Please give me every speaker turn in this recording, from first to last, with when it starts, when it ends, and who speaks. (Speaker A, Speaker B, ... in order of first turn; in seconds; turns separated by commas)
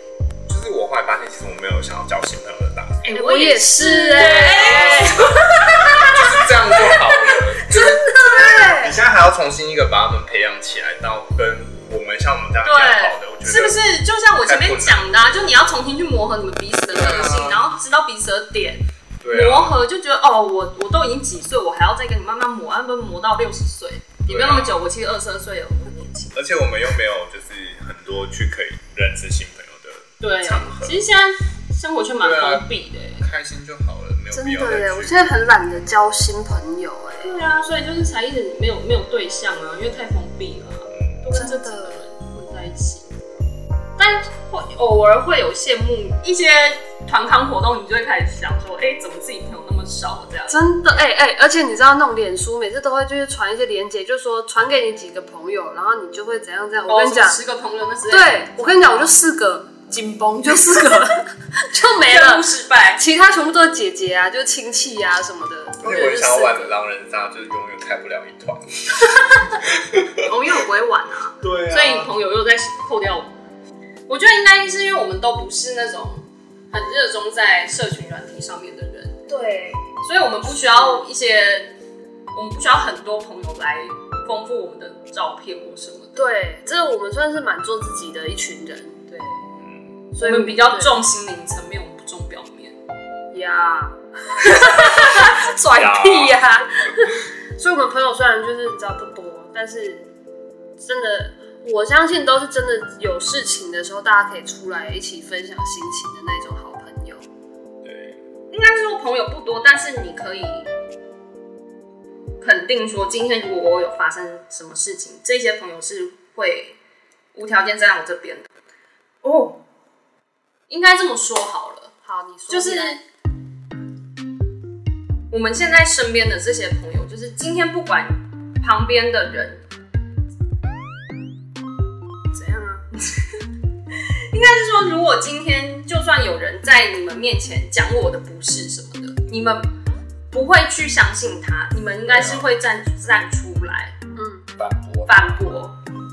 Speaker A: 0.5-3.0, Speaker B: 3.0-6.2, Speaker C: 3.1-5.3, Speaker C: 5.8-6.2, Speaker A: 5.9-13.8, Speaker C: 7.6-9.0, Speaker B: 12.6-26.4, Speaker A: 14.4-15.4, Speaker A: 16.9-17.6, Speaker A: 19.2-19.8, Speaker A: 24.2-24.8, Speaker A: 26.3-31.0, Speaker B: 30.2-33.2, Speaker A: 32.2-35.7, Speaker C: 34.3-37.3, Speaker B: 37.2-43.1, Speaker A: 40.9-41.3, Speaker C: 41.3-42.0, Speaker B: 44.0-51.0, Speaker C: 50.5-57.4, Speaker B: 56.9-59.1, Speaker C: 58.1-66.7, Speaker B: 62.0-63.0, Speaker A: 65.8-70.2, Speaker B: 70.2-73.3, Speaker A: 71.4-72.1, Speaker B: 74.1-79.2, Speaker C: 79.3-79.8, Speaker B: 79.9-81.7, Speaker C: 80.4-81.0, Speaker B: 82.3-86.3, Speaker C: 86.2-89.4, Speaker A: 89.6-89.9, Speaker C: 90.1-90.9, Speaker B: 90.2-92.8, Speaker C: 93.3-100.1, Speaker A: 95.7-96.9, Speaker C: 100.8-107.2, Speaker A: 107.8-108.2, Speaker B: 108.5-110.7, Speaker B: 112.4-116.8, Speaker B: 117.3-118.5, Speaker B: 119.2-119.6, Speaker B: 120.7-121.9, Speaker C: 122.0-123.0, Speaker B: 122.5-123.0, Speaker B: 125.3-129.6, Speaker C: 132.3-132.9, Speaker B: 133.9-139.7, Speaker B: 140.3-143.9, Speaker A: 142.1-142.5, Speaker C: 144.1-144.4, Speaker A: 144.6-145.4, Speaker B: 145.1-145.8